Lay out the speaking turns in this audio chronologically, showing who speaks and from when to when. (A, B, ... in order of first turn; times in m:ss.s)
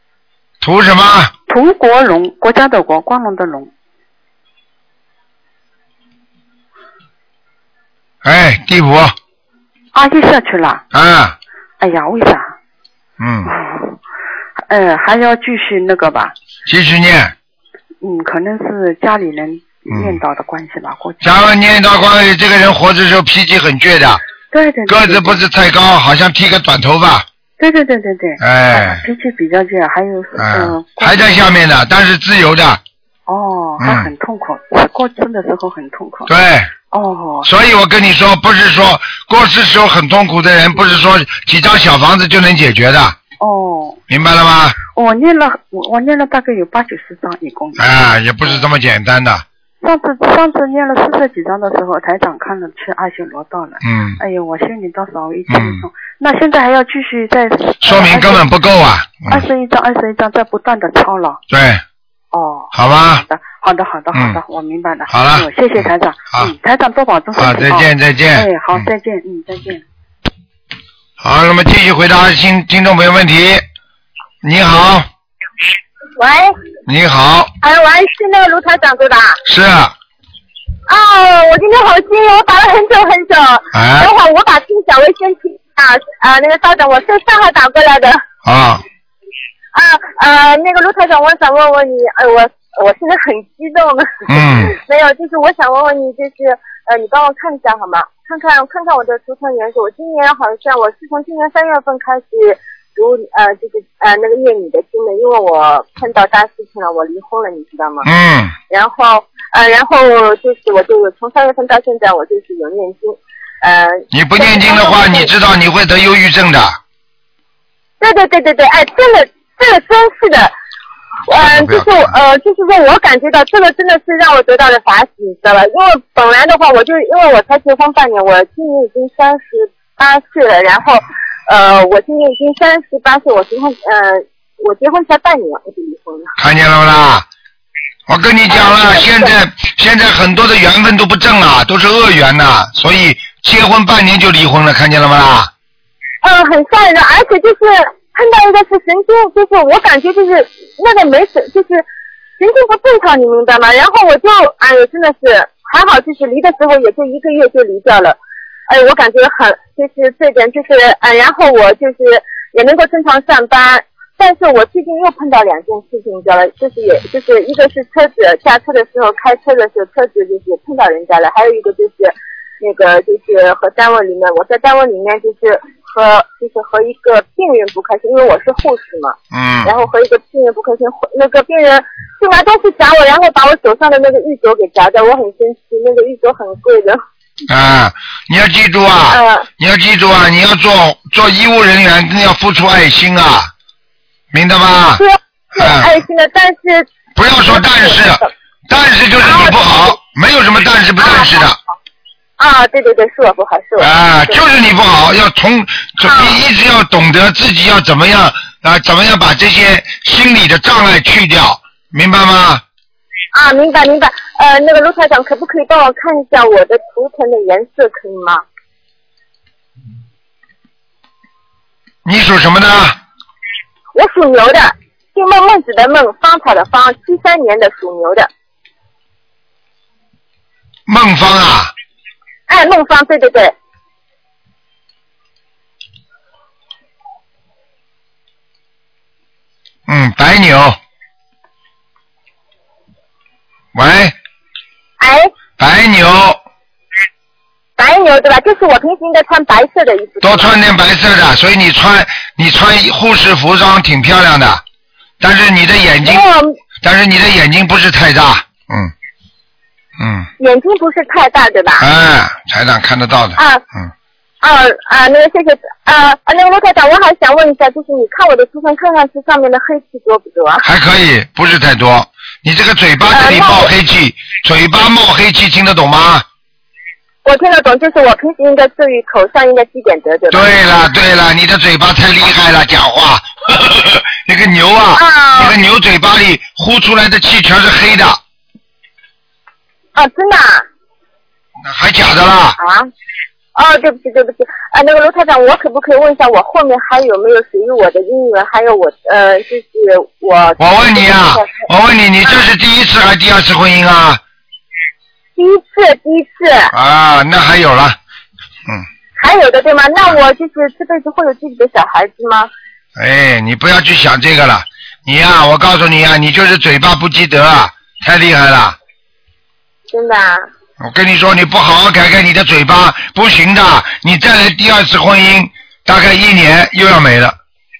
0:00.6-0:01.3 A
0:01.5-0:03.7 B
0:08.2-0:09.1 A
0:09.9-0:10.8 B
0:10.9-0:11.4 A
0:11.8-0:12.5 B
0:13.2-0:13.5 A
0:13.4-0:14.0 B
0:14.7-0:16.3 B
0:16.6-0:17.3 A
0:18.0-0:21.4 B
0:19.9-0:20.2 A
0:21.2-0:24.2 A
0:24.5-0:25.4 B
0:24.9-0:27.2 A
0:27.6-0:31.5 B
0:28.4-0:29.0 A
0:30.4-0:32.8 A
0:33.3-0:36.3 B
0:33.8-0:34.1 A
0:36.3-0:36.7 A
0:36.9-0:37.5 B
0:37.4-0:43.2 A
0:43.4-0:44.0 B
0:44.1-0:44.8 A
0:44.9-0:47.8 B
0:47.8-0:49.4 A
0:49.8-0:58.5 B
0:53.8-0:54.2 A
0:55.5-0:55.8 A
0:57.8-0:59.4 A
0:59.3-1:01.4 B
1:01.5-1:01.8 A
1:02.3-1:09.8 B
1:02.7-1:03.2 A
1:05.1-1:06.5 A
1:07.4-1:08.8 A
1:11.2-1:13.6 A
1:14.4-1:15.1 A
1:16.2-1:16.5 C
1:16.9-1:17.5 A
1:17.6-1:19.4 C
1:19.4-1:19.9 A
1:20.9-1:28.2 C
1:23.7-1:24.1 A
1:28.4-1:28.8 A
1:29.7-1:48.1 C
1:34.3-1:34.8 A
1:48.0-1:48.5 A
1:48.7-1:55.3 C
1:54.1-1:56.8 A
1:58.0-2:00.5 C
2:01.3-2:16.3 C
2:01.3-2:02.2 A
2:16.4-2:17.2 A
2:18.1-2:25.5 A
2:18.5-2:19.3 C
2:26.2-2:31.8 C
2:32.4-2:38.2 C
2:38.7-3:07.0 C
2:59.3-2:59.7 A
3:07.5-3:13.5 A
3:09.1-3:09.5 C
3:14.3-3:15.0 A
3:15.0-3:16.9 C
3:15.5-3:16.0 A
3:17.1-3:21.6 A
3:17.4-3:18.3 C
3:19.2-3:19.6 C
3:21.0-3:21.5 C
3:22.4-3:24.4 C
3:23.8-3:32.6 A
3:26.0-3:26.4 C
3:33.3-3:38.4 C
3:42.0-3:43.0 A
3:43.9-3:48.3 C
3:50.9-3:51.7 A
3:52.5-3:53.5 C
3:59.9-4:00.8 A
4:03.7-4:04.1 A
4:05.0-4:05.3 C
4:05.6-4:06.4 A
4:07.8-4:10.5 C
4:10.2-4:14.6 A
4:15.2-4:16.2 A
4:16.0-4:16.5 C
4:16.8-4:18.9 A
4:20.0-4:20.3 A
4:20.4-4:21.8 C
4:21.8-4:23.9 A
4:24.4-4:30.6 C
4:30.6-4:36.2 A
4:33.1-4:33.7 C
4:37.2-4:40.5 C
4:40.3-4:48.2 A
4:44.9-4:45.6 C
4:50.0-4:50.6 C
4:51.6-4:52.6 A
4:52.6-4:52.9 C
4:53.6-5:01.6 C
5:00.6-5:04.2 A
5:05.4-5:06.7 C
5:06.7-5:08.0 A
5:09.2-5:12.5 C
5:13.0-5:18.8 A
5:19.9-5:20.4 C
5:20.8-5:27.4 A